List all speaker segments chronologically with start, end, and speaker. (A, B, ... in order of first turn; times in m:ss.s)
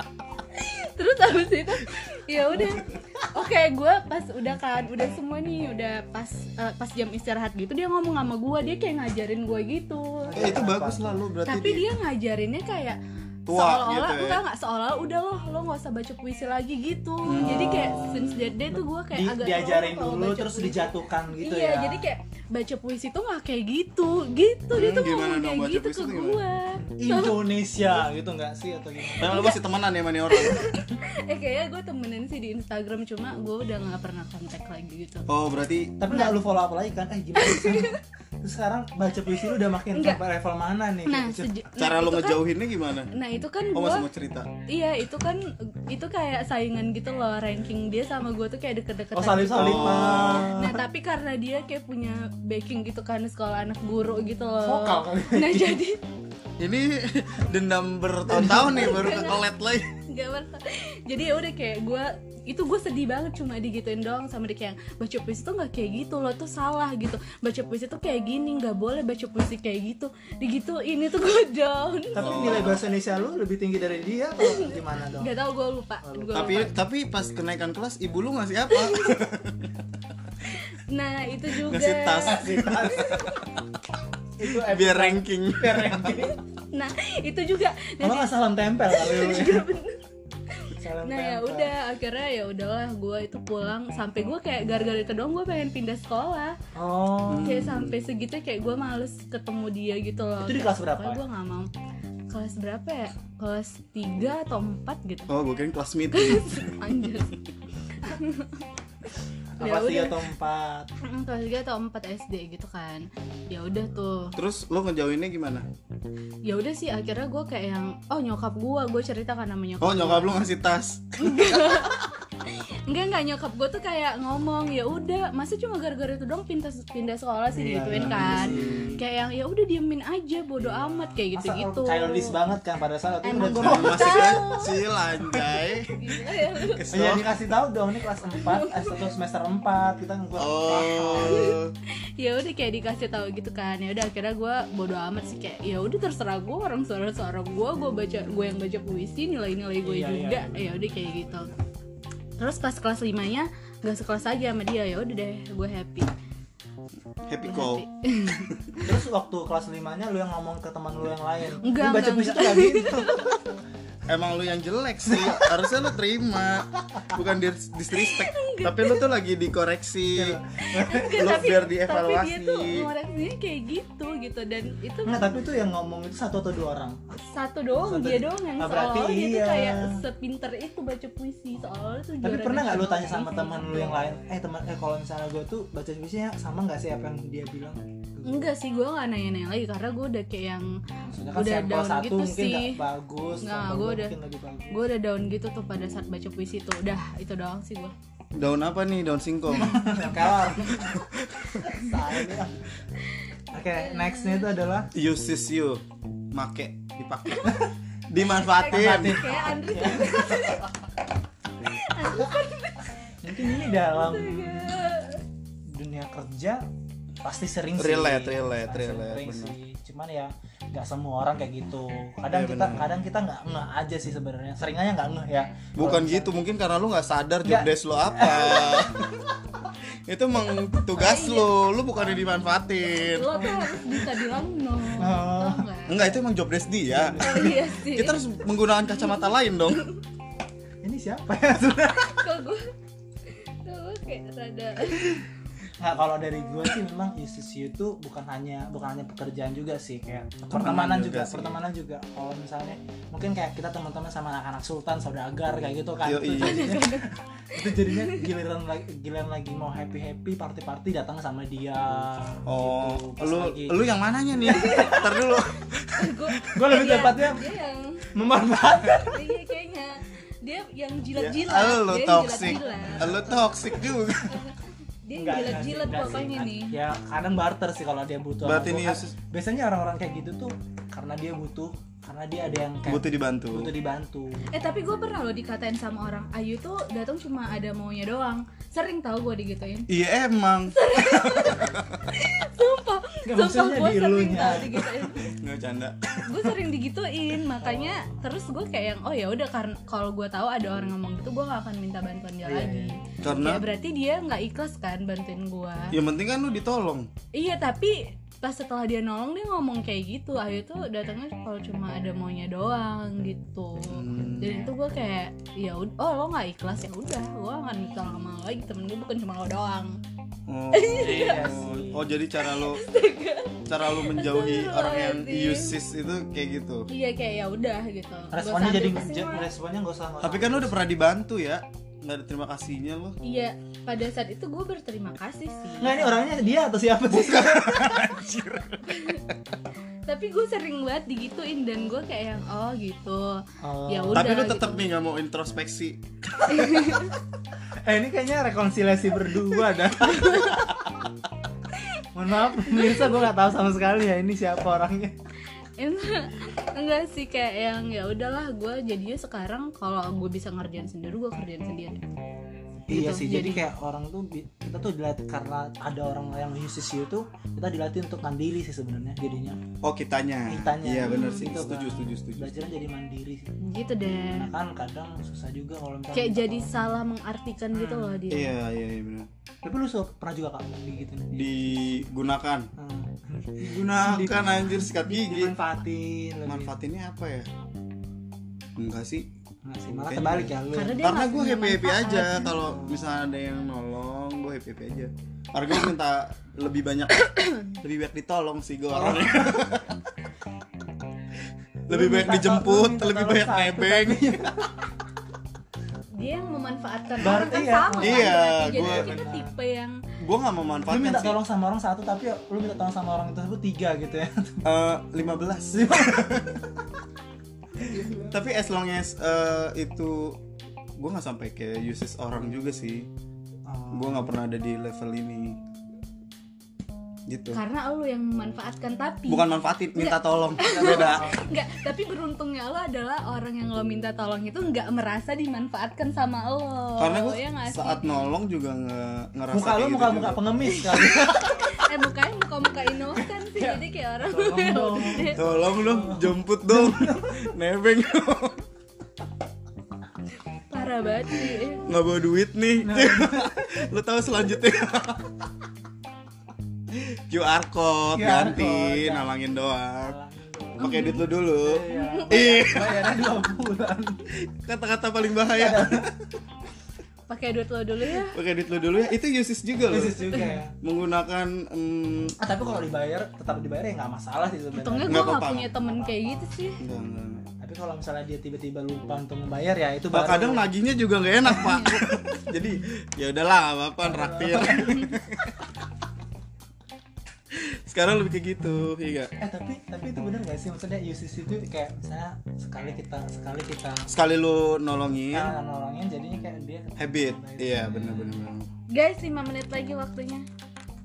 0:00.5-0:10.6 A
0:10.2-0:11.2 B
0:10.4-0:11.8 C
0:11.4-0:27.5 A
0:13.5-0:14.4 C
0:17.2-0:18.0 C
0:17.4-0:22.1 B
0:24.7-0:26.4 C
0:26.8-0:29.4 B
0:29.2-0:30.7 C
0:29.2-0:29.6 A
0:30.3-0:35.3 A
0:35.3-0:36.2 C
0:36.0-0:41.6 B
0:37.4-0:38.0 A
0:39.9-0:40.2 A
0:41.0-0:42.4 A
0:41.8-0:43.1 C
0:43.1-0:44.0 A
0:43.7-0:44.5 C
0:44.7-0:56.0 A
0:49.1-0:50.8 B
0:49.5-0:50.5 C
0:54.6-0:55.8 B
0:56.6-0:59.9 C
0:58.3-0:59.0 B
0:58.4-1:12.7 A
1:12.1-1:15.3 B
1:12.2-1:12.8 C
1:14.4-1:16.8 A
1:16.0-1:16.4 B
1:16.3-1:19.7 C
1:18.7-1:19.2 A
1:20.5-1:23.5 A
1:21.6-1:23.6 C
1:22.3-1:23.1 B
1:24.4-1:26.4 B
1:24.5-1:26.2 C
1:26.7-1:30.0 A
1:28.0-1:29.7 B
1:30.5-1:36.6 A
1:30.7-1:31.7 B
1:36.7-1:37.7 B
1:37.3-1:37.9 C
1:37.4-1:41.7 A
1:40.4-1:41.2 B
1:42.3-1:45.3 A
1:45.3-1:47.2 C
1:46.1-1:47.3 A
1:47.9-1:48.6 A
1:49.6-1:50.9 B
1:49.6-1:50.3 A
1:51.0-1:54.4 A
1:54.3-1:55.6 C
1:56.4-2:00.3 A
1:59.8-2:02.0 C
2:01.2-2:12.4 A
2:07.5-2:09.0 B
2:07.9-2:09.0 C
2:10.7-2:14.6 B
2:13.2-2:14.8 A
2:13.3-2:17.3 C
2:15.9-2:16.8 A
2:16.9-2:21.5 B
2:18.3-2:19.1 A
2:20.4-2:21.7 C
2:21.2-2:21.6 A
2:22.2-2:31.5 A
2:29.8-2:31.6 B
2:32.4-2:36.1 A
2:37.3-2:38.7 C
2:37.4-2:38.9 A
2:38.8-2:43.2 B
2:41.6-2:43.4 A
2:44.1-2:50.4 C
2:45.1-2:45.5 B
2:48.0-2:49.0 A
2:50.1-2:51.2 B
2:50.7-2:55.2 A
2:51.1-2:52.9 C
2:55.0-2:57.2 B
2:57.2-3:04.1 A
2:57.8-3:00.0 B
3:02.2-3:08.5 B
3:08.2-3:10.8 A
3:11.0-3:14.8 B
3:11.3-3:12.8 A
3:13.4-3:14.2 A
3:14.7-3:17.9 A
3:18.3-3:21.7 C
3:19.5-3:21.0 B
3:21.6-3:22.7 B
3:23.5-3:24.9 B
3:23.5-3:24.5 A
3:24.9-3:29.5 C
3:28.2-3:30.7 A
3:28.7-3:30.6 B
3:31.6-3:35.2 A
3:33.2-3:34.8 B
3:35.7-3:36.7 B
3:37.2-3:46.4 B
3:37.8-3:39.5 C
3:42.3-3:43.0 C
3:45.8-3:49.1 C
3:47.4-3:49.2 B
3:50.1-3:53.4 C
3:50.9-3:51.6 A
3:52.9-3:56.1 A
3:53.3-3:54.0 B
3:55.0-3:55.7 B
3:55.8-3:59.8 C
3:56.9-3:57.7 B
3:57.2-3:58.2 A
3:58.9-4:00.0 A
4:00.8-4:02.2 B
4:01.9-4:02.7 A
4:03.3-4:05.2 A
4:05.8-4:23.8 B
4:10.5-4:11.6 C
4:16.0-4:16.8 C
4:16.4-4:17.1 A
4:17.7-4:18.2 A
4:22.4-4:25.6 C
4:24.4-4:25.3 B
4:24.5-4:28.0 A
4:26.4-4:27.5 B
4:28.1-4:29.2 B
4:28.8-4:33.5 A
4:31.1-4:34.4 C
4:32.7-4:33.6 B
4:34.2-4:36.8 A
4:35.1-4:44.5 B
4:38.4-4:39.1 C
4:42.8-4:43.7 C
4:44.5-4:49.9 A
4:49.9-4:52.0 C
4:50.7-4:55.3 A
4:53.2-4:54.9 B
4:55.2-4:56.3 C
4:56.2-5:06.0 A
4:57.6-4:58.2 B
5:02.4-5:03.0 B
5:03.2-5:03.6 C
5:05.9-5:07.1 C
5:07.3-5:20.0 A
5:13.9-5:14.7 C
5:20.5-5:22.8 C
5:20.7-5:21.6 A
5:20.9-5:22.0 B
5:22.4-5:25.8 A
5:23.6-5:26.9 C
5:26.9-5:29.5 A
5:28.3-5:30.8 B
5:30.2-5:33.2 C
5:33.2-5:36.3 A
5:35.8-5:38.1 B
5:37.1-5:39.4 C
5:38.9-5:39.2 A
5:40.0-5:44.9 A
5:43.6-5:44.3 B
5:44.1-5:47.2 C
5:46.5-5:47.1 A
5:47.8-5:50.9 B
5:50.0-5:50.6 A
5:52.1-5:55.2 B
5:52.6-5:53.2 A
5:55.8-6:02.0 A
6:02.9-6:09.6 B
6:02.9-6:03.6 A
6:09.8-6:12.6 C
6:10.5-6:13.6 B
6:11.0-6:11.4 A
6:13.6-6:14.5 A
6:14.3-6:17.0 B
6:16.1-6:18.6 A
6:17.7-6:18.2 B
6:18.3-6:19.3 C
6:19.6-6:22.0 B
6:21.3-6:22.7 C
6:22.8-6:26.8 B
6:23.6-6:25.5 C
6:26.4-6:27.5 C
6:28.8-6:29.3 C
6:29.6-6:31.0 B
6:30.1-6:40.0 C
6:30.7-6:32.6 A
6:32.6-6:33.0 B
6:37.2-6:37.7 A
6:38.9-6:39.7 B
6:41.9-6:44.7 C
6:41.9-6:44.7 B
6:46.1-6:50.0 A
6:47.2-6:49.5 B
6:48.0-6:49.2 C
6:50.2-6:51.4 C
6:50.9-6:54.6 B
6:54.6-6:56.6 C
6:55.7-6:56.5 B
6:57.8-6:58.4 B
6:57.9-7:00.4 C
7:01.0-7:03.1 C
7:03.7-7:04.3 B
7:03.9-7:05.6 C
7:07.3-7:07.6 C
7:07.5-7:18.0 A
7:09.3-7:11.3 C
7:10.6-7:11.4 B
7:17.0-7:20.9 C
7:19.5-7:21.8 B
7:20.9-7:25.4 A
7:23.6-7:27.4 B
7:25.4-7:28.6 C
7:30.7-7:31.9 A
7:31.8-7:35.4 C
7:32.8-7:33.7 B
7:36.9-7:40.2 C
7:38.1-7:39.3 B
7:40.0-7:44.2 B
7:40.8-7:43.4 C
7:40.8-7:41.3 A
7:41.9-7:42.6 A
7:44.3-7:46.2 C
7:45.5-7:46.2 B
7:47.3-7:48.4 A
7:48.2-7:52.4 C
7:49.9-7:50.7 B
7:52.4-7:56.3 B
7:54.7-7:56.8 A
7:55.0-7:55.7 C
7:56.8-7:57.5 C
7:57.6-8:00.7 B
8:00.1-8:05.7 C
8:01.5-8:02.0 A
8:04.0-8:05.1 B
8:04.7-8:05.1 A
8:07.5-8:09.3 C
8:09.4-8:14.1 B
8:14.1-8:15.6 C
8:15.3-8:18.5 B
8:17.0-8:18.7 C
8:18.9-8:20.5 A